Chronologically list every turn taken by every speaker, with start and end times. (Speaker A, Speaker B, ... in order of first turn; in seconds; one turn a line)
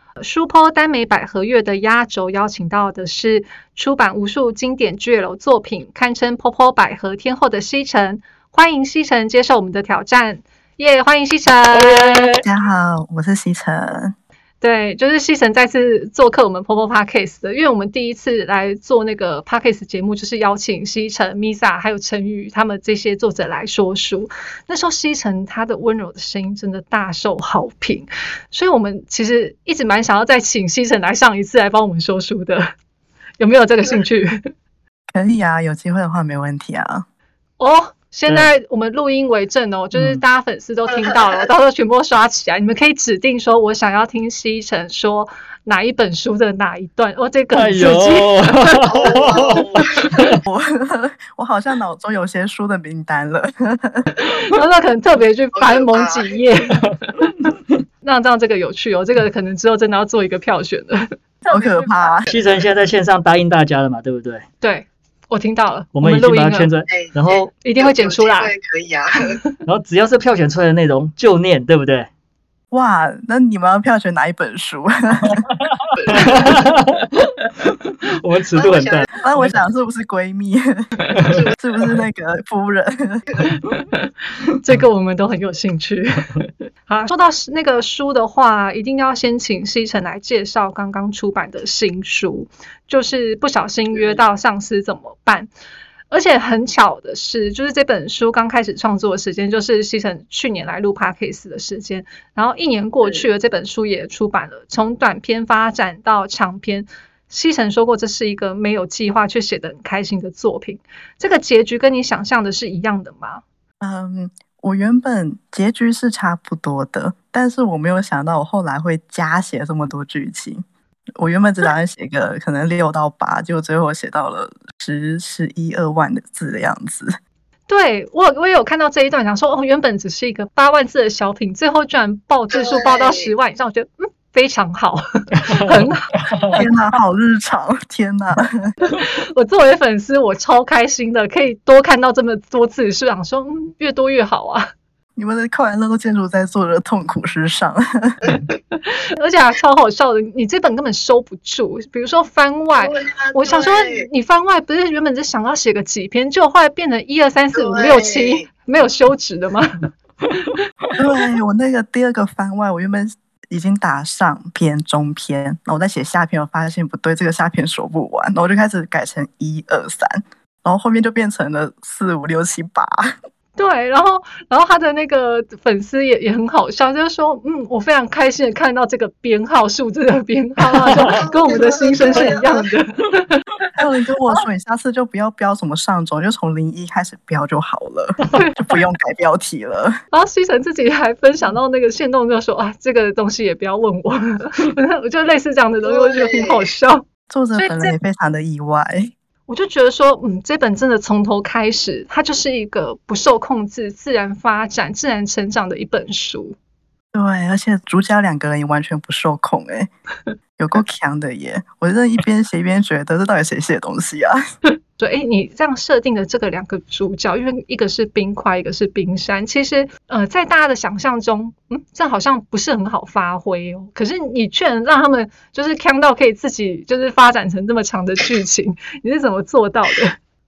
Speaker A: 0.2-12.3
Speaker B: 11.7-12.4
Speaker C: 12.4-14.1
Speaker A: 14.6-32.7
Speaker A: 33.4-34.5
Speaker C: 35.1-37.1
Speaker A: 37.6-48.9
Speaker B: 39.9-40.2
Speaker D: 40.9-41.4
Speaker B: 47.5-49.6
Speaker D: 48.9-50.2
Speaker C: 50.4-54.1
Speaker A: 54.4-56.9
Speaker D: 55.5-56.4
Speaker A: 58.0-62.1
Speaker C: 61.5-62.3
Speaker D: 62.3-62.7
Speaker B: 62.3-64.5
Speaker A: 64.6-66.7
Speaker B: 66.0-67.5
Speaker D: 66.9-69.4
Speaker A: 67.6-68.5
Speaker B: 69.7-72.1
Speaker C: 72.7-75.5
Speaker D: 75.9-76.4
Speaker B: 76.1-79.5
Speaker D: 78.5-79.1
Speaker C: 79.2-80.9
Speaker D: 81.3-81.6
Speaker C: 81.6-83.3
Speaker D: 83.3-83.6
Speaker A: 84.6-95.5
Speaker A: 96.1-113.4
Speaker C: 113.8-120.6
Speaker C: 121.2-127.2
Speaker A: 127.7-136.2
Speaker D: 132.5-133.3
Speaker B: 136.3-136.6
Speaker C: 136.5-138.8
Speaker A: 138.8-144.7
Speaker C: 145.2-148.2
Speaker D: 148.3-148.6
Speaker A: 148.9-159.8
Speaker D: 152.8-154.1
Speaker D: 157.5-158.5
Speaker C: 160.9-173.1
Speaker A: 173.6-183.6
Speaker D: 180.9-182.7
Speaker B: 180.9-181.2
Speaker C: 183.8-190.0
Speaker A: 190.1-197.0
Speaker D: 195.8-196.7
Speaker C: 197.3-199.1
Speaker A: 197.6-197.9
Speaker A: 199.5-206.6
Speaker C: 207.1-209.9
Speaker C: 210.6-214.4
Speaker A: 215.0-230.2